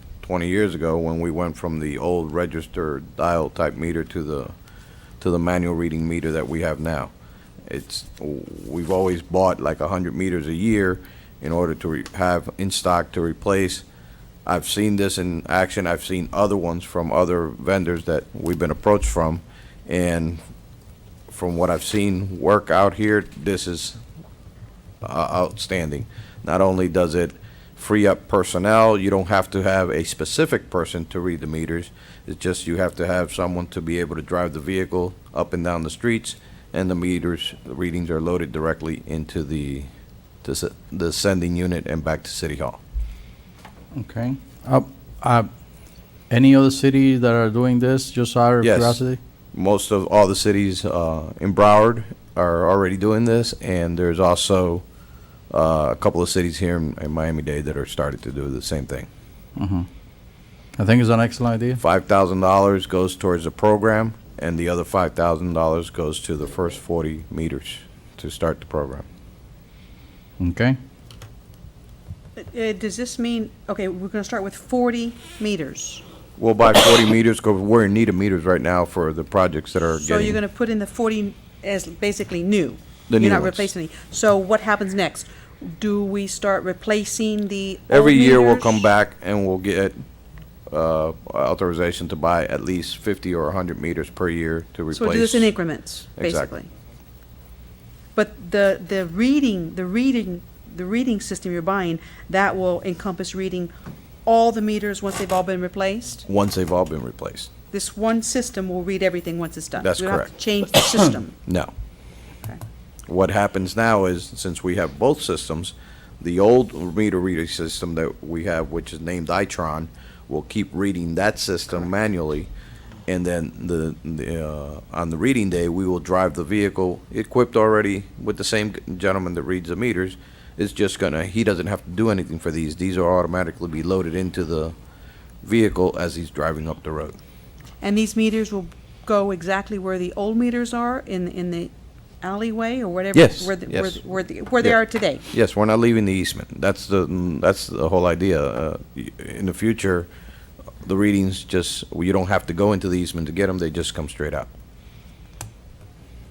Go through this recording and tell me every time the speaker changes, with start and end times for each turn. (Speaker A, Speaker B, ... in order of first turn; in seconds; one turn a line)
Speaker A: 0.2-4.5
Speaker A: 5.2-7.1
Speaker A: 7.7-13.8
Speaker A: 14.4-20.4
Speaker A: 21.3-24.0
Speaker A: 25.0-39.9
Speaker A: 40.4-42.8
Speaker B: 43.9-45.5
Speaker B: 46.3-49.2
Speaker A: 48.6-49.0
Speaker A: 49.5-54.8
Speaker A: 55.5-59.1
Speaker B: 59.5-59.9
Speaker B: 60.8-61.8
Speaker A: 61.8-69.0
Speaker B: 70.4-70.8
Speaker C: 72.4-76.0
Speaker A: 76.4-80.4
Speaker C: 79.9-88.8
Speaker A: 83.1-83.7
Speaker A: 87.9-90.0
Speaker A: 90.7-95.5
Speaker C: 94.9-96.7
Speaker A: 96.2-96.5
Speaker C: 98.2-103.7
Speaker C: 104.2-106.2
Speaker A: 106.3-107.5
Speaker C: 107.7-111.3
Speaker A: 109.8-110.3
Speaker A: 111.5-111.7
Speaker A: 113.1-122.5
Speaker A: 123.1-134.7
Speaker A: 135.4-137.2
Speaker C: 137.8-141.7
Speaker C: 142.2-145.2
Speaker A: 143.1-144.0
Speaker A: 145.3-150.1
Speaker A: 150.8-154.5